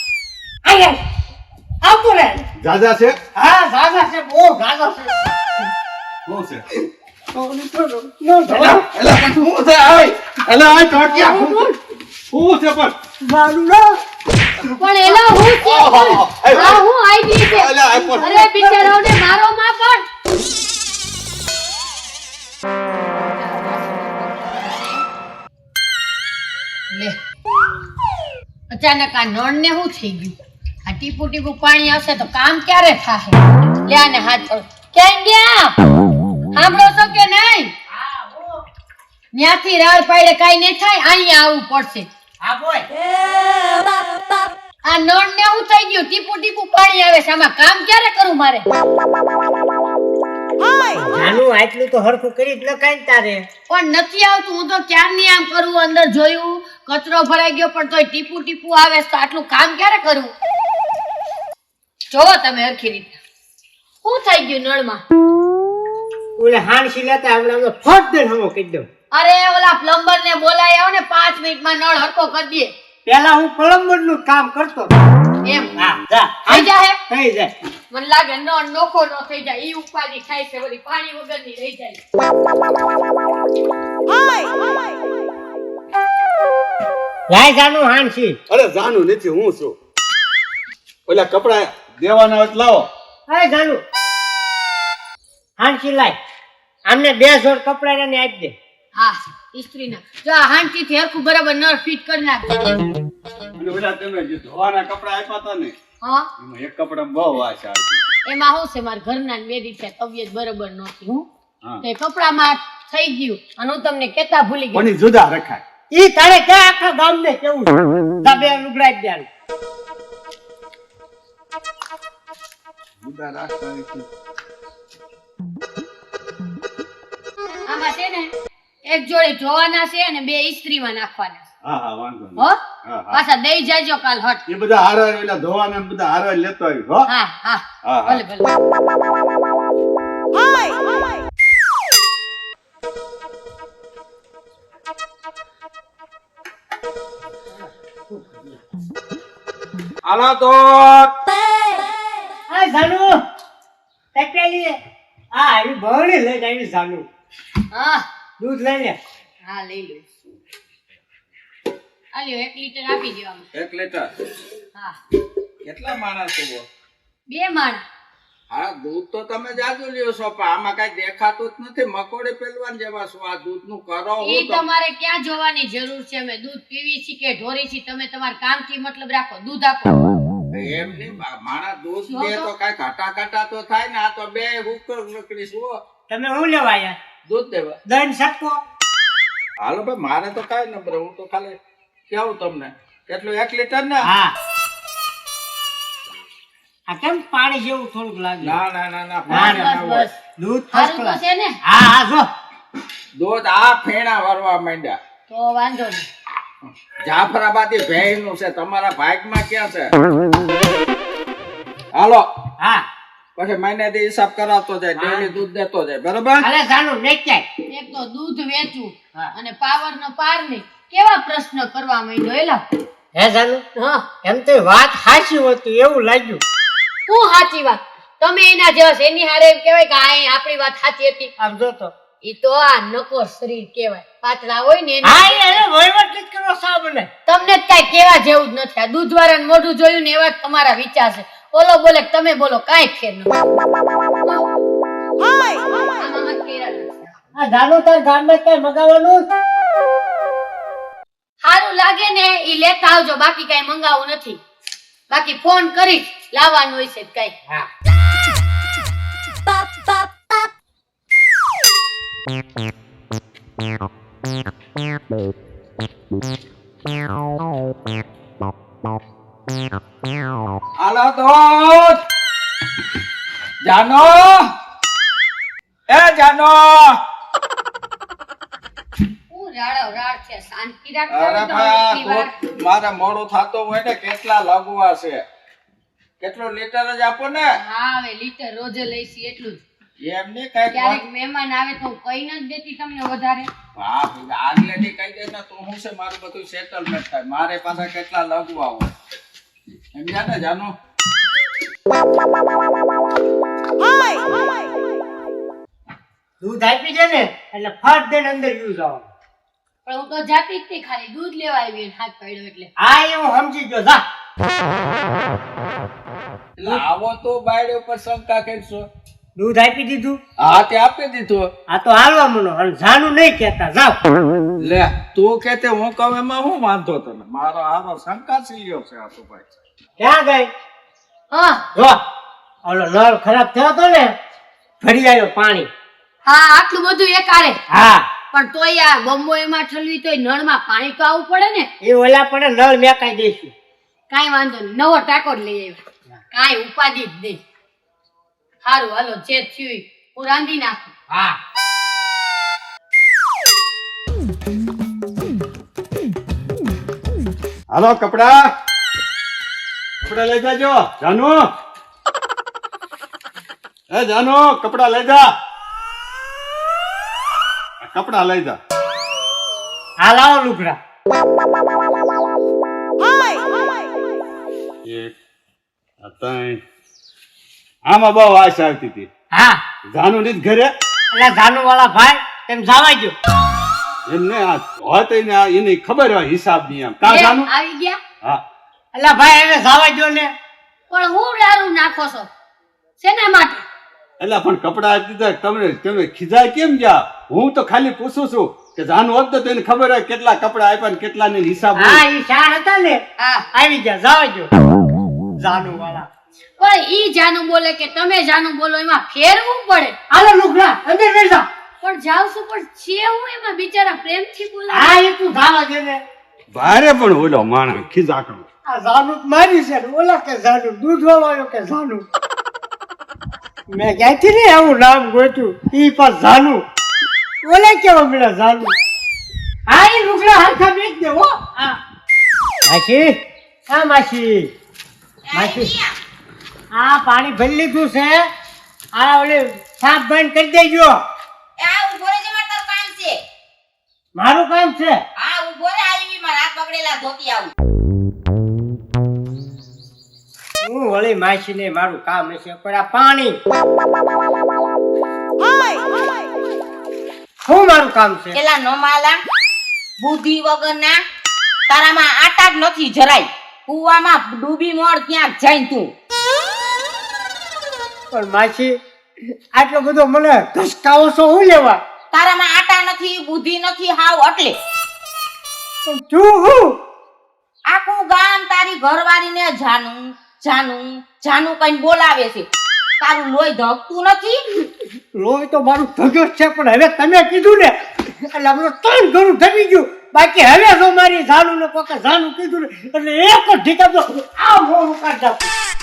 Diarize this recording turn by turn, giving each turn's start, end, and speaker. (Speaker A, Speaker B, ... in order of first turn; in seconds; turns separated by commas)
Speaker A: 0.7-1.0, Speaker A: 1.8-2.5, Speaker B: 2.6-3.2, Speaker A: 3.3-5.1, Speaker B: 6.2-6.6, Speaker A: 7.3-8.8, Speaker B: 8.5-11.6, Speaker C: 11.0-11.7, Speaker B: 12.3-12.9, Speaker A: 13.2-14.0, Speaker C: 14.7-20.0, Speaker B: 15.5-16.8, Speaker B: 17.4-18.3, Speaker A: 18.0-19.0, Speaker C: 26.9-27.2, Speaker C: 28.7-35.8, Speaker C: 36.5-37.7, Speaker A: 37.9-38.6, Speaker C: 39.3-42.1, Speaker A: 42.4-42.9, Speaker C: 44.8-48.7, Speaker A: 50.9-53.5, Speaker C: 53.7-60.3, Speaker C: 62.1-63.2, Speaker C: 64.0-65.0, Speaker A: 66.4-68.9, Speaker C: 69.1-72.7, Speaker A: 73.0-74.9, Speaker C: 75.4-75.7, Speaker A: 75.8-77.5, Speaker C: 76.5-77.0, Speaker C: 77.9-82.0, Speaker A: 87.3-88.4, Speaker B: 88.5-89.8, Speaker B: 91.1-92.9, Speaker A: 93.3-93.8, Speaker A: 95.6-96.2, Speaker A: 96.9-98.5, Speaker C: 98.9-102.7, Speaker B: 103.6-105.7, Speaker C: 106.0-106.3, Speaker B: 106.4-108.0, Speaker C: 108.3-111.3, Speaker C: 111.8-114.9, Speaker B: 114.7-115.6, Speaker A: 115.9-119.3, Speaker D: 123.0-124.0, Speaker C: 127.7-128.3, Speaker C: 128.9-131.4, Speaker B: 131.6-133.2, Speaker C: 133.1-134.4, Speaker B: 134.5-137.0, Speaker C: 137.1-138.5, Speaker B: 137.8-138.2, Speaker D: 150.0-151.1, Speaker A: 152.5-153.2, Speaker A: 154.1-154.8, Speaker A: 155.3-157.1, Speaker C: 157.7-158.0, Speaker A: 158.4-159.0, Speaker C: 159.4-160.1, Speaker C: 162.1-163.4, Speaker D: 163.5-164.1, Speaker D: 165.6-166.7, Speaker C: 167.3-167.8, Speaker D: 168.5-174.6, Speaker C: 174.2-180.2, Speaker D: 180.5-185.8, Speaker E: 182.1-182.4, Speaker A: 186.1-187.0, Speaker D: 187.3-187.8, Speaker A: 187.8-188.6, Speaker D: 189.6-191.6, Speaker D: 192.1-194.1, Speaker A: 194.0-194.3, Speaker A: 196.9-198.6, Speaker D: 198.4-200.1, Speaker A: 199.3-199.7, Speaker C: 199.3-200.1, Speaker A: 200.4-202.3, Speaker C: 200.7-201.6, Speaker D: 203.2-205.0, Speaker C: 205.3-206.1, Speaker D: 207.0-209.9, Speaker D: 211.9-212.3, Speaker A: 212.6-212.9, Speaker D: 213.4-216.4, Speaker A: 214.9-215.3, Speaker A: 216.4-217.4, Speaker C: 217.7-222.6, Speaker A: 223.1-223.6, Speaker C: 223.8-224.1, Speaker A: 224.2-226.4, Speaker C: 227.1-231.3, Speaker A: 231.4-231.9, Speaker C: 232.2-235.6, Speaker A: 235.0-237.1, Speaker C: 237.2-243.3, Speaker C: 244.2-244.5, Speaker C: 246.0-247.1, Speaker A: 247.3-249.3, Speaker C: 251.4-254.4, Speaker C: 255.1-257.4, Speaker D: 270.8-272.0, Speaker D: 273.6-274.4, Speaker D: 275.9-276.9, Speaker C: 279.3-282.3, Speaker D: 281.1-285.2, Speaker D: 286.2-287.5, Speaker C: 287.6-289.6, Speaker D: 290.0-291.0, Speaker C: 290.7-293.5, Speaker D: 293.8-298.9, Speaker D: 299.9-300.7, Speaker A: 306.4-309.1, Speaker C: 309.9-312.7, Speaker A: 312.8-314.0, Speaker D: 316.6-318.9, Speaker A: 319.4-320.2, Speaker D: 320.4-321.5, Speaker A: 321.7-324.0, Speaker D: 324.6-329.5, Speaker A: 330.0-330.5, Speaker C: 331.3-331.6, Speaker A: 331.7-332.0, Speaker A: 332.6-334.1, Speaker A: 334.8-335.7, Speaker C: 336.2-337.6, Speaker A: 337.7-338.1, Speaker C: 338.3-341.7, Speaker A: 341.8-343.5, Speaker C: 344.1-345.8, Speaker C: 346.3-347.4, Speaker C: 348.6-350.9, Speaker B: 357.7-358.3, Speaker B: 360.0-361.4, Speaker B: 363.9-365.3, Speaker B: 367.8-368.6, Speaker A: 370.0-370.8, Speaker B: 374.8-375.1, Speaker B: 376.0-376.6, Speaker B: 377.9-379.1, Speaker A: 379.3-379.6, Speaker B: 379.9-380.7, Speaker A: 381.1-383.1, Speaker B: 384.1-387.5, Speaker C: 387.0-388.0, Speaker A: 388.9-390.3, Speaker C: 390.9-392.3, Speaker C: 393.0-393.6, Speaker B: 394.2-402.0, Speaker A: 401.8-403.0, Speaker C: 403.2-403.4, Speaker A: 403.5-404.5, Speaker A: 405.4-406.1, Speaker C: 406.6-409.9, Speaker A: 410.1-411.5, Speaker C: 411.8-415.0, Speaker A: 414.7-416.0, Speaker B: 416.5-418.4, Speaker A: 418.7-422.0, Speaker A: 423.7-426.6, Speaker A: 427.4-428.7, Speaker A: 429.7-431.8, Speaker A: 432.7-434.5, Speaker E: 435.3-435.9, Speaker A: 435.3-435.7, Speaker A: 436.7-438.3, Speaker A: 438.9-441.0, Speaker E: 441.6-443.2, Speaker A: 444.2-445.0, Speaker E: 445.2-447.5, Speaker A: 450.6-453.4, Speaker A: 457.4-458.4, Speaker E: 458.3-459.2, Speaker E: 460.0-461.0, Speaker E: 461.7-465.9, Speaker A: 468.1-468.8, Speaker A: 469.5-471.8, Speaker E: 472.1-474.6, Speaker A: 475.9-476.8, Speaker E: 477.7-482.5, Speaker E: 483.0-484.4, Speaker A: 485.1-495.5